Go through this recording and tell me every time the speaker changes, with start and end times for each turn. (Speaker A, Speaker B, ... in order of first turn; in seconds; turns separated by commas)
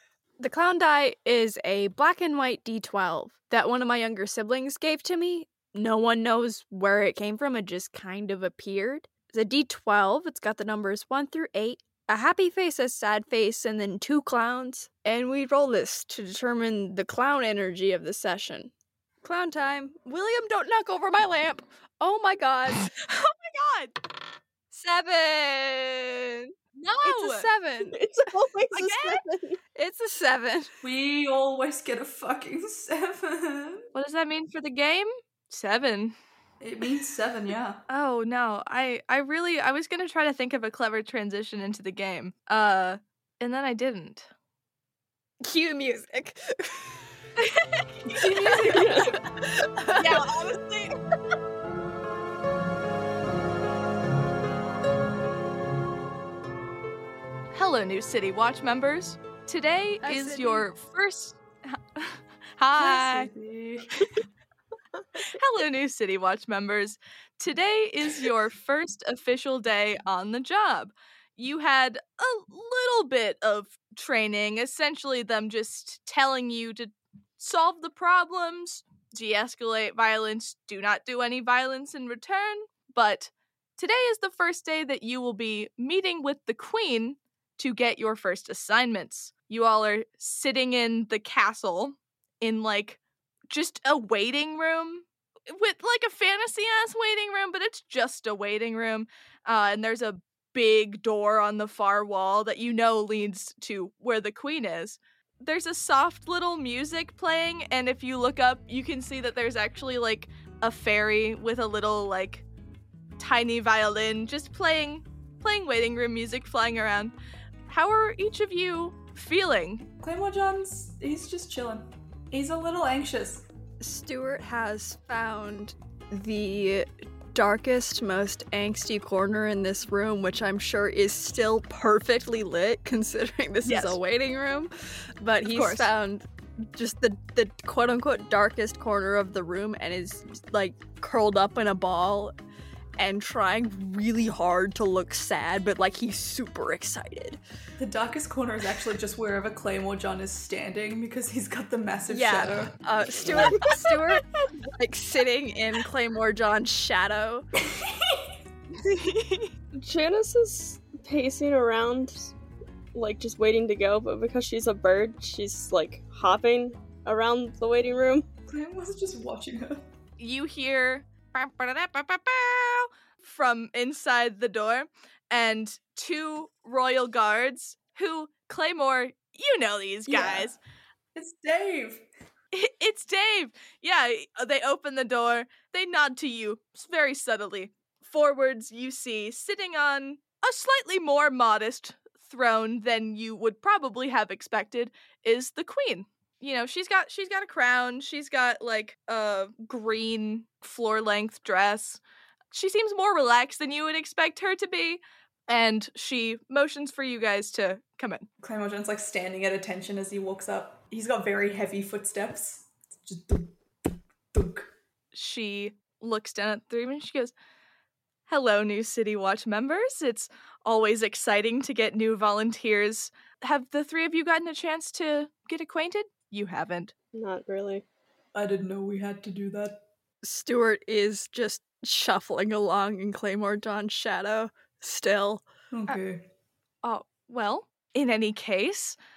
Speaker A: 0.4-18.7, Speaker A: 19.2-22.9, Speaker B: 23.1-23.9, Speaker A: 24.7-26.5, Speaker B: 26.8-27.5, Speaker A: 27.0-28.0, Speaker C: 27.9-29.6, Speaker B: 28.7-29.2, Speaker A: 29.8-30.7, Speaker D: 30.8-33.8, Speaker B: 33.9-36.1, Speaker D: 36.6-37.8, Speaker B: 37.9-44.3, Speaker A: 45.4-47.0, Speaker B: 47.4-48.5, Speaker D: 48.1-49.2, Speaker A: 48.6-50.3, Speaker C: 48.7-49.1, Speaker B: 49.9-50.9, Speaker B: 57.5-63.3, Speaker A: 60.0-60.7, Speaker D: 62.8-64.1, Speaker B: 65.3-93.0, Speaker B: 93.5-112.4, Speaker B: 113.2-117.1, Speaker B: 117.7-119.9, Speaker D: 120.0-123.5, Speaker A: 123.8-142.3, Speaker B: 133.6-134.0, Speaker B: 135.4-135.9, Speaker A: 143.0-147.4, Speaker D: 147.8-152.8, Speaker A: 152.1-157.4, Speaker D: 157.7-158.2, Speaker B: 158.8-159.5, Speaker C: 159.8-162.3, Speaker C: 162.9-168.3, Speaker D: 168.5-169.8, Speaker B: 170.2-180.6, Speaker D: 180.1-180.5, Speaker D: 181.2-182.1, Speaker B: 182.5-202.0, Speaker B: 202.5-208.3, Speaker D: 208.4-213.6, Speaker D: 214.3-214.7, Speaker B: 215.1-217.3, Speaker B: 218.3-226.9, Speaker C: 227.1-227.8, Speaker D: 228.3-229.8, Speaker A: 230.2-235.4, Speaker D: 235.7-236.2, Speaker B: 236.8-239.0